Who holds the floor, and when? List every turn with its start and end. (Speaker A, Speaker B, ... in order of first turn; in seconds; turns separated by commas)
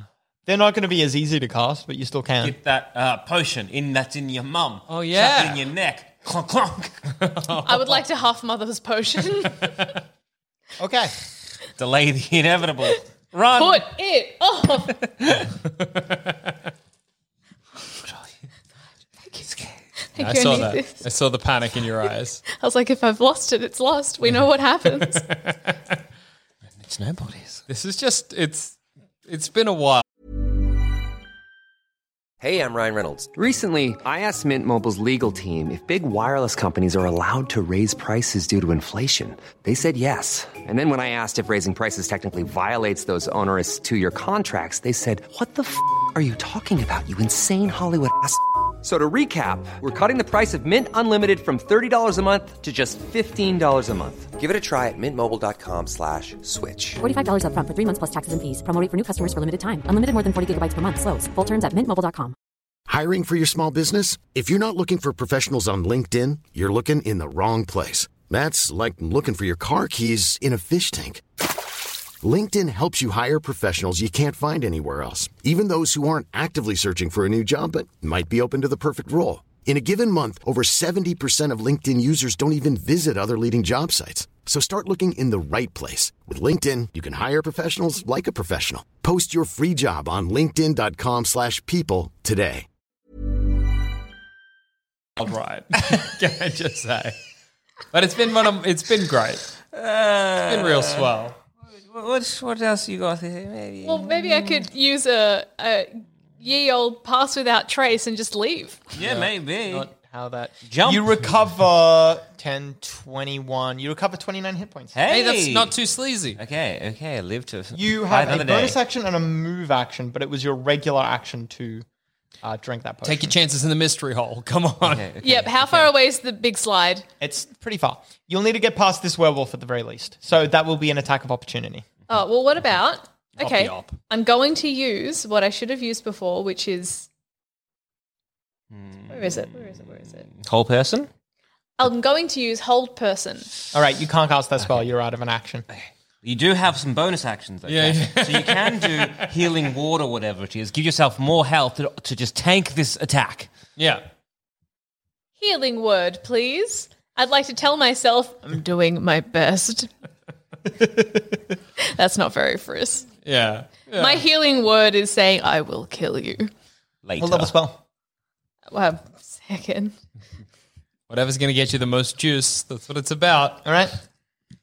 Speaker A: 0.5-2.5, Speaker B: 2.4-7.2, Speaker C: 4.9-5.7, Speaker C: 7.2-8.0, Speaker D: 7.6-9.9, Speaker A: 10.8-11.1, Speaker B: 11.7-13.8, Speaker D: 13.5-15.1, Speaker C: 15.6-16.5, Speaker B: 19.4-19.8, Speaker D: 20.0-21.0, Speaker C: 20.2-22.4, Speaker D: 22.5-25.3, Speaker C: 24.9-25.7, Speaker B: 26.8-27.6, Speaker C: 27.7-30.0, Speaker E: 32.4-57.0, Speaker F: 57.0-62.3, Speaker G: 62.9-71.2, Speaker G: 72.2-92.7, Speaker C: 95.2-97.2, Speaker C: 97.9-99.5, Speaker B: 99.7-101.1, Speaker C: 100.4-101.3, Speaker B: 101.7-104.7, Speaker D: 103.8-108.8, Speaker B: 108.9-109.9, Speaker C: 109.0-109.3, Speaker A: 109.7-114.9, Speaker B: 110.7-111.1, Speaker B: 114.9-115.7, Speaker C: 115.1-116.4, Speaker B: 116.3-118.8, Speaker A: 117.7-121.8, Speaker A: 122.4-123.3, Speaker C: 123.0-125.1, Speaker B: 124.8-125.9, Speaker D: 125.2-127.0, Speaker A: 127.2-131.8, Speaker D: 132.1-137.1, Speaker C: 133.4-133.9, Speaker B: 138.7-139.5, Speaker D: 139.1-140.3, Speaker B: 140.3-141.1, Speaker D: 141.8-143.5, Speaker A: 143.7-145.7, Speaker B: 146.2-153.5, Speaker C: 147.7-149.5, Speaker C: 153.8-154.0, Speaker D: 155.4-159.9, Speaker D: 161.8-163.1, Speaker C: 163.2-164.2, Speaker D: 163.9-166.5, Speaker B: 167.0-167.5, Speaker A: 167.2-167.8, Speaker D: 168.7-169.9, Speaker C: 171.1-173.6, Speaker A: 173.6-173.9